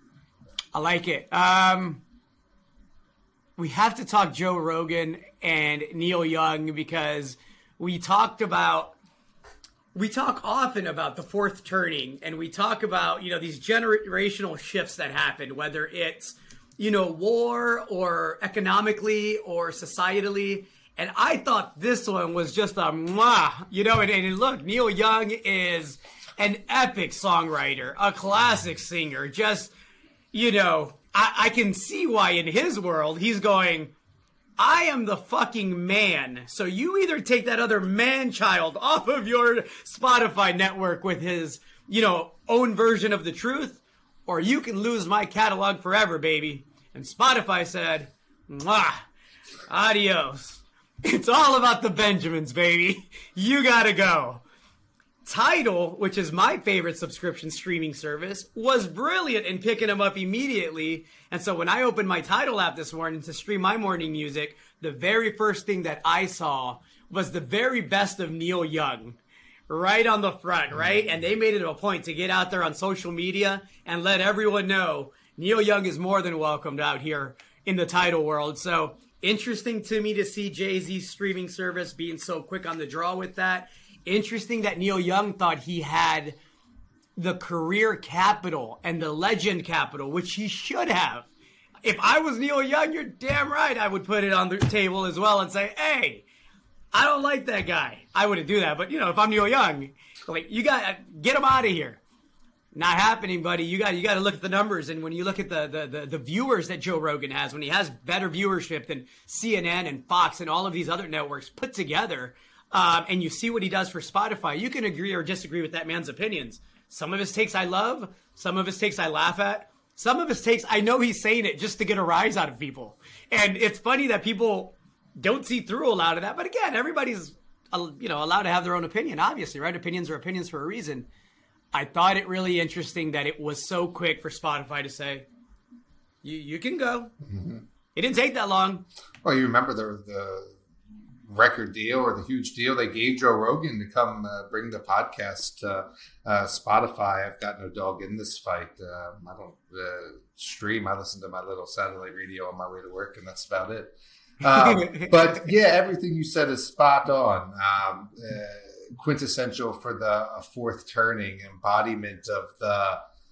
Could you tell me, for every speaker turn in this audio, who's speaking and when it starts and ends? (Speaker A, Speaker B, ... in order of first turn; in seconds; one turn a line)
Speaker A: 0.7-2.0
Speaker A: 3.6-8.9
Speaker A: 9.9-29.7
Speaker A: 30.3-33.9
Speaker A: 34.6-49.1
Speaker A: 49.7-54.4
Speaker A: 55.2-69.2
Speaker A: 69.7-86.4
Speaker B: 70.7-71.0
Speaker A: 87.2-91.3
Speaker A: 91.8-96.2
Speaker A: 96.9-102.0
Speaker A: 102.7-131.1
Speaker A: 131.7-135.3
Speaker A: 136.2-137.1
Speaker B: 137.2-137.6
Speaker A: 137.9-138.8
Speaker B: 139.2-140.6
Speaker B: 141.3-163.0
Speaker A: 154.6-155.1